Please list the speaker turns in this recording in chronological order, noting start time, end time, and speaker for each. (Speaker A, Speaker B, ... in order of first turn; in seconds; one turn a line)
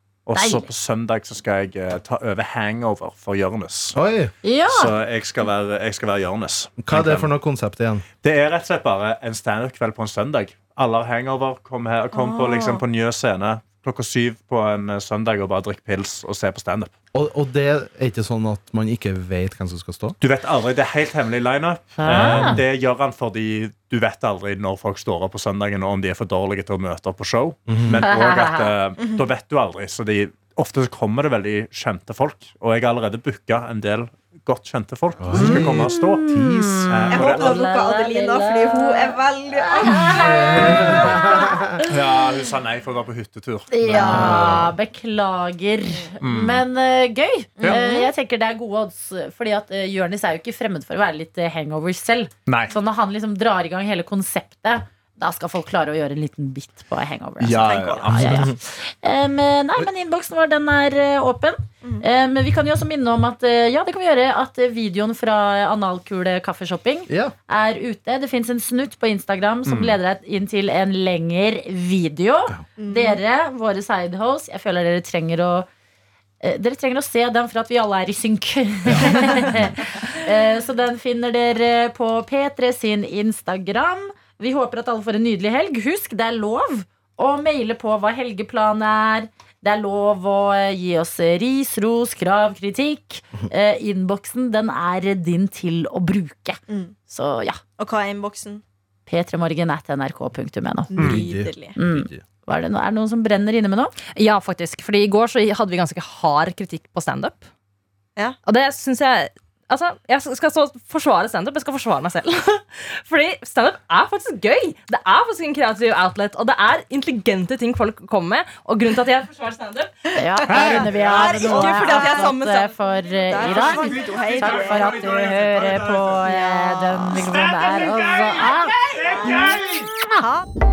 Speaker A: 0.3-4.0
Speaker B: 0.3-0.7
Speaker C: 3.9-4.3
Speaker B: 4.4-4.9
Speaker A: 4.7-7.3
Speaker C: 6.8-8.1
Speaker A: 8.2-16.9
Speaker D: 12.1-12.8
Speaker C: 17.1-20.1
Speaker A: 20.2-36.2
Speaker B: 22.0-22.6
Speaker C: 27.7-28.1
Speaker B: 28.0-28.7
Speaker C: 35.2-37.1
Speaker B: 35.4-41.9
Speaker A: 36.9-37.6
Speaker D: 37.1-41.4
Speaker C: 39.9-41.8
Speaker A: 41.9-44.6
Speaker B: 43.7-75.7
Speaker C: 43.9-44.7
Speaker A: 46.2-46.6
Speaker D: 47.6-48.1
Speaker A: 52.5-52.7
Speaker A: 57.4-58.5
Speaker D: 57.6-58.0
Speaker C: 58.0-58.6
Speaker C: 67.1-67.3
Speaker A: 69.7-70.0
Speaker D: 72.8-73.2
Speaker B: 76.4-97.6
Speaker C: 78.9-79.7
Speaker D: 96.7-96.9
Speaker D: 97.8-98.6
Speaker B: 99.1-100.9
Speaker D: 100.9-101.8
Speaker C: 100.9-102.2
Speaker B: 101.8-103.9
Speaker E: 104.1-107.5
Speaker E: 108.4-119.9
Speaker B: 120.1-128.8
Speaker D: 120.4-125.1
Speaker A: 120.5-121.9
Speaker E: 121.5-122.4
Speaker A: 123.4-126.3
Speaker D: 126.2-127.3
Speaker A: 127.1-129.9
Speaker D: 129.1-130.5
Speaker B: 129.3-130.2